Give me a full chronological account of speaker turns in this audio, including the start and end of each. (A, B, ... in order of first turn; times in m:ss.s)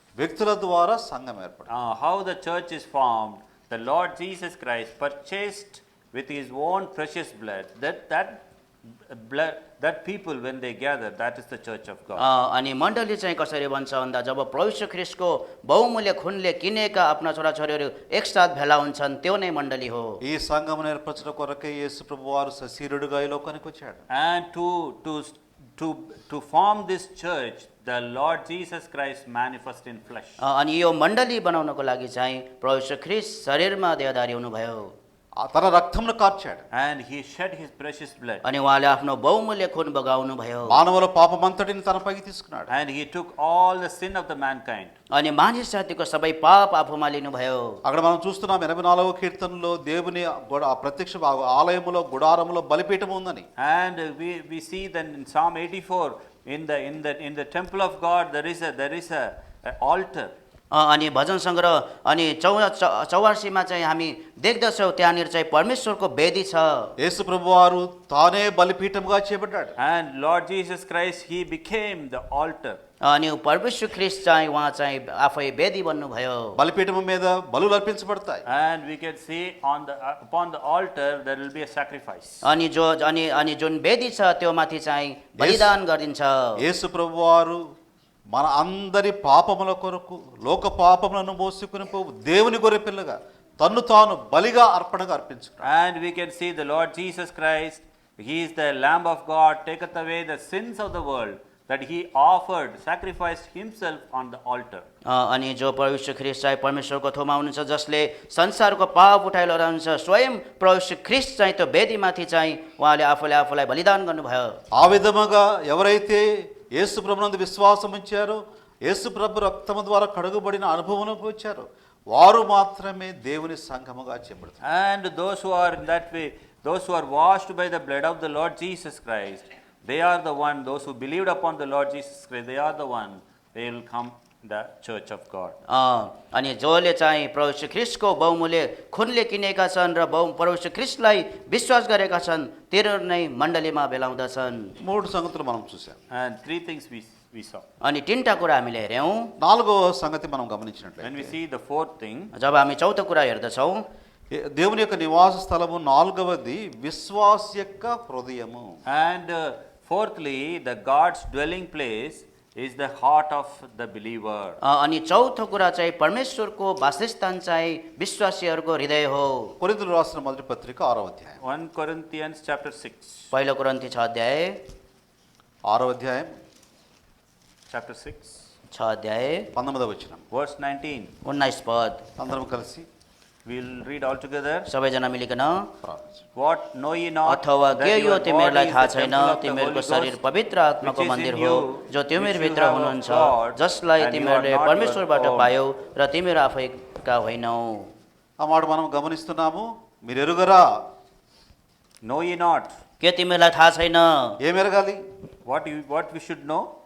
0:00.2-0:01.7 A
0:01.7-0:12.2 B
0:12.2-0:20.2 C
0:20.2-0:24.0 A
0:24.1-0:30.4 B
0:30.4-0:34.9 C
0:35.4-0:36.6 A
0:36.7-0:38.4 B
0:38.4-0:40.8 C
0:40.7-0:42.7 A
0:42.7-0:44.9 B
0:45.1-0:47.8 C
0:47.8-0:53.5 A
0:53.6-1:00.3 B
1:00.7-1:06.9 C
1:07.0-1:09.7 A
1:09.8-1:12.8 B
1:13.0-1:16.6 C
1:16.6-1:18.4 A
1:18.5-1:22.4 B
1:22.4-1:26.6 C
1:25.4-1:25.8 A
1:26.6-1:27.6 A
1:28.3-1:35.7 A
1:35.6-1:44.8 B
1:45.0-1:54.6 C
1:54.8-2:04.6 A
2:04.6-2:15.6 B
2:15.7-2:24.8 C
2:24.8-2:26.0 A
2:26.1-2:27.6 B
2:27.8-2:29.3 C
2:29.4-2:31.4 A
2:31.0-2:32.3 B
2:32.4-2:33.8 C
2:34.3-2:38.8 A
2:38.9-2:44.6 B
2:44.6-2:49.6 C
2:49.6-2:51.4 A
2:51.4-2:53.3 B
2:53.3-2:54.6 C
2:55.7-2:56.3 A
2:57.7-2:58.4 B
2:58.7-2:59.5 C
2:59.6-3:00.2 A
3:00.3-3:01.1 B
3:01.2-3:02.1 C
3:02.2-3:02.9 A
3:03.5-3:04.7 B
3:04.7-3:05.7 C
3:05.8-3:06.2 A
3:06.4-3:10.2 B
3:07.3-3:17.9 C
3:10.8-3:15.5 B
3:18.4-3:20.6 A
3:22.0-3:22.8 B
3:23.0-3:24.4 C
3:24.4-3:25.0 A
3:25.5-3:26.7 B